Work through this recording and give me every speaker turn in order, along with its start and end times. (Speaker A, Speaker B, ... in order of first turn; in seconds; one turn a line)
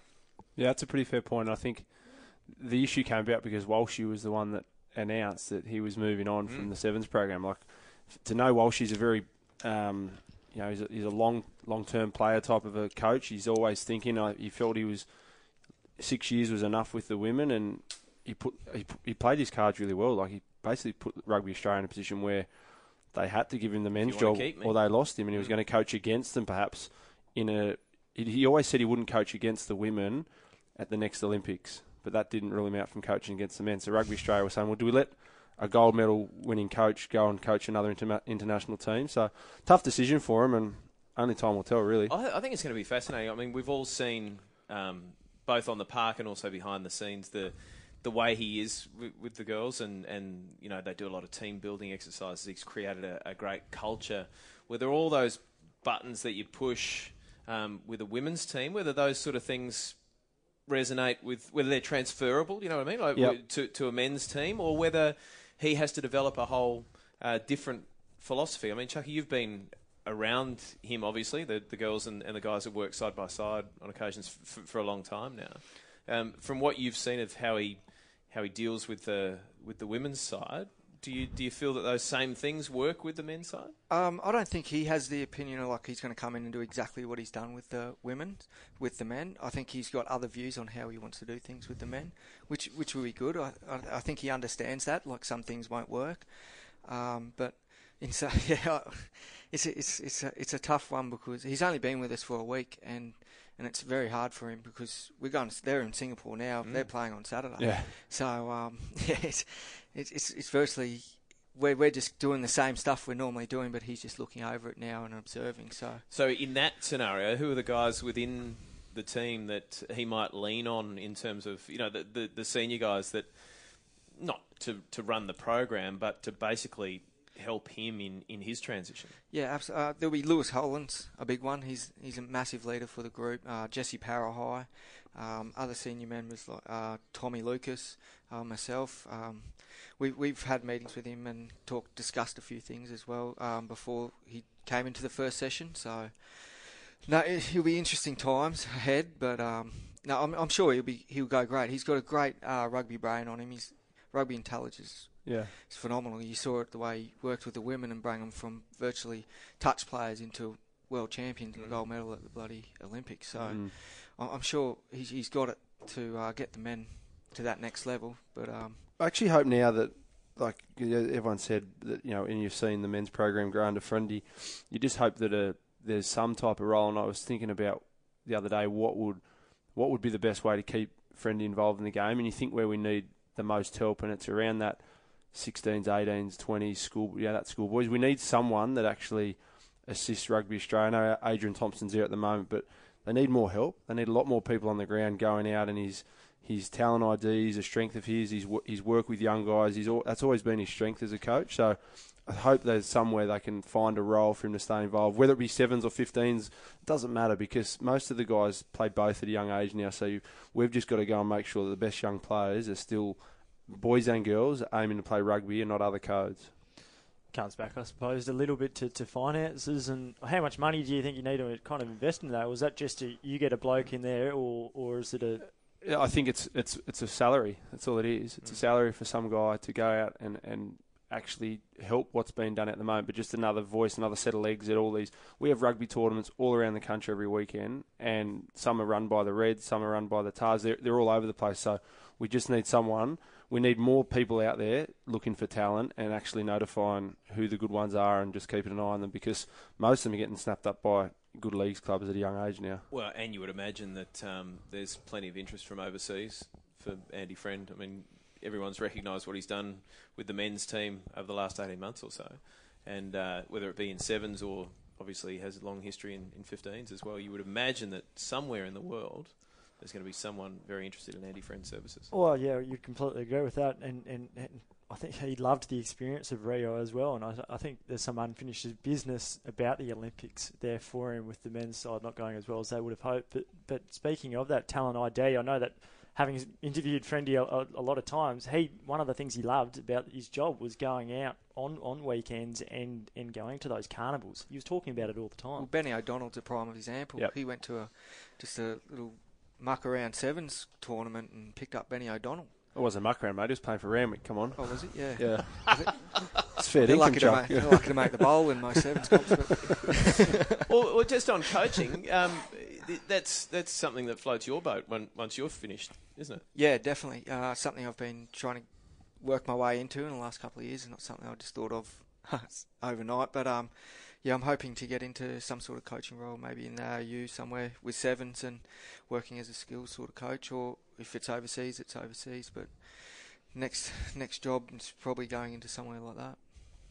Speaker A: 0.6-42.1
Speaker B: 6.4-6.7
Speaker B: 24.0-25.6
Speaker B: 42.1-83.7
Speaker C: 83.9-116.0
Speaker B: 106.6-106.9
Speaker A: 107.6-107.9
Speaker B: 116.1-129.2
Speaker C: 129.3-168.9
Speaker A: 155.2-155.5
Speaker B: 161.5-161.8
Speaker A: 163.4-163.7
Speaker A: 169.0-216.5
Speaker D: 217.3-225.5
Speaker A: 225.6-252.8
Speaker B: 252.9-272.1
Speaker D: 272.1-295.7
Speaker C: 295.5-302.6
Speaker A: 302.7-307.9
Speaker C: 304.6-310.4
Speaker B: 310.7-316.4
Speaker C: 316.5-336.6